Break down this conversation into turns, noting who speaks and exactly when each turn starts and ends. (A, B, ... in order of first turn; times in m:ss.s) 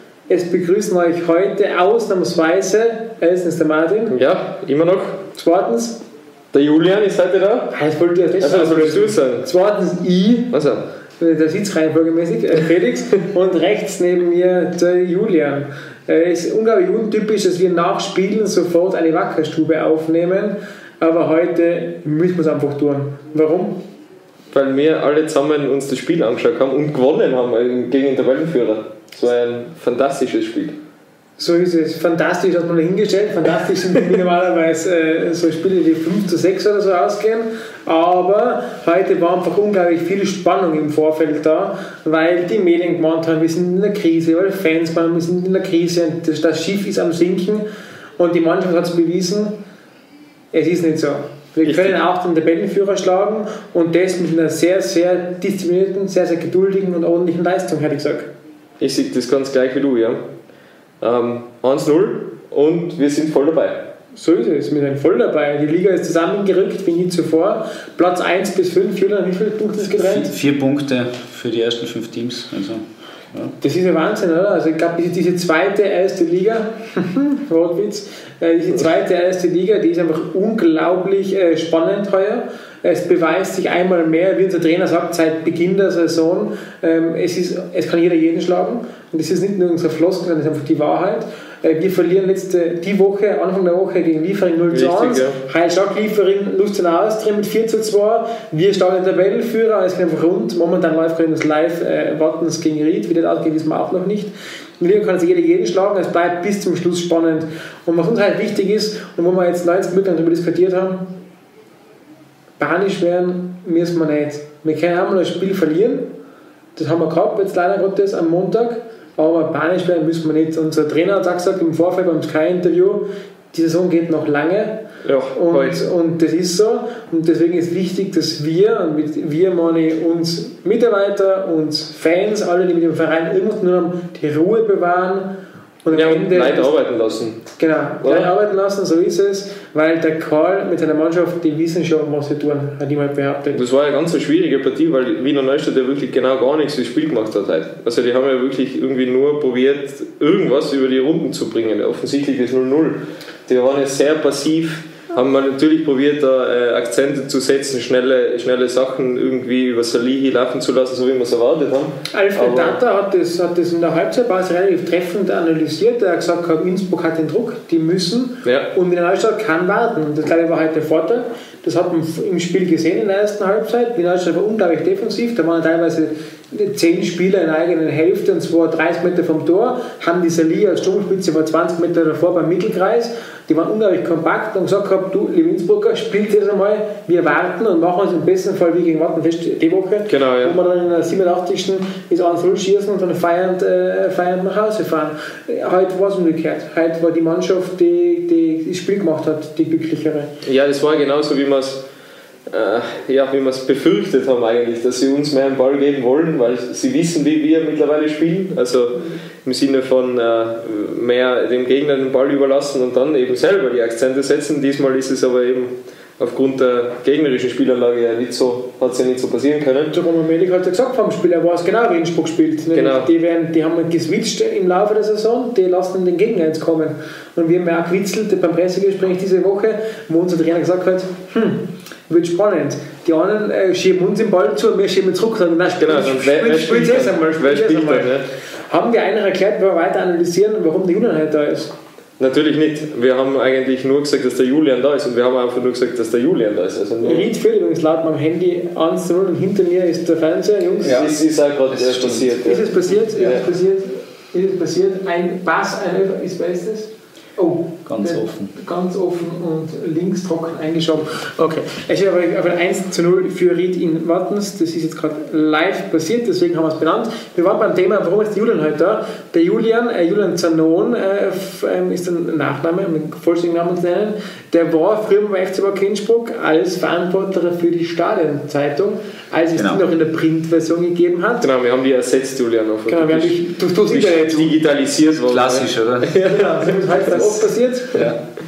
0:00.3-0:04.2 A
0:04.1-0:05.2 B
0:05.3-0:06.0 A
0:06.5-0:07.7 B
0:07.7-0:10.5 A
0:08.4-0:09.5 B
0:10.5-0:10.8 B
0:11.2-0:23.8 A
0:24.5-0:30.8 B
0:31.4-0:47.6 A
0:48.2-0:49.5 A
0:50.5-0:58.3 A
0:51.6-0:52.0 B
0:58.8-1:00.2 B
1:01.0-1:03.8 B
1:04.1-1:10.3 A
1:10.0-1:13.5 C
1:13.6-1:51.1 A
1:34.7-1:35.4 B
1:52.6-1:56.1 A
1:56.8-2:04.8 A
2:05.0-2:05.8 B
2:05.3-2:15.3 A
2:15.8-2:16.8 A
2:15.9-2:17.4 B
2:17.6-2:23.6 A
2:18.0-2:18.3 B
2:23.5-2:42.8 B
2:42.1-3:20.3 A
2:48.4-2:48.7 B
3:10.1-3:10.6 B
3:20.4-3:21.8 B
3:22.5-3:39.9 B
3:39.9-3:58.2 A
3:42.7-3:43.1 B
3:55.8-3:58.2 B
3:58.7-4:01.7 A
4:02.2-4:07.3 B
4:07.0-4:11.1 A
4:10.8-4:11.1 C
4:10.8-4:13.4 B
4:11.7-4:12.4 C
4:12.4-4:41.5 A
4:17.8-4:18.5 C
4:39.5-4:39.8 C
4:41.4-4:47.4 B
4:42.9-4:44.5 A
4:45.1-4:46.1 C
4:46.2-4:48.0 A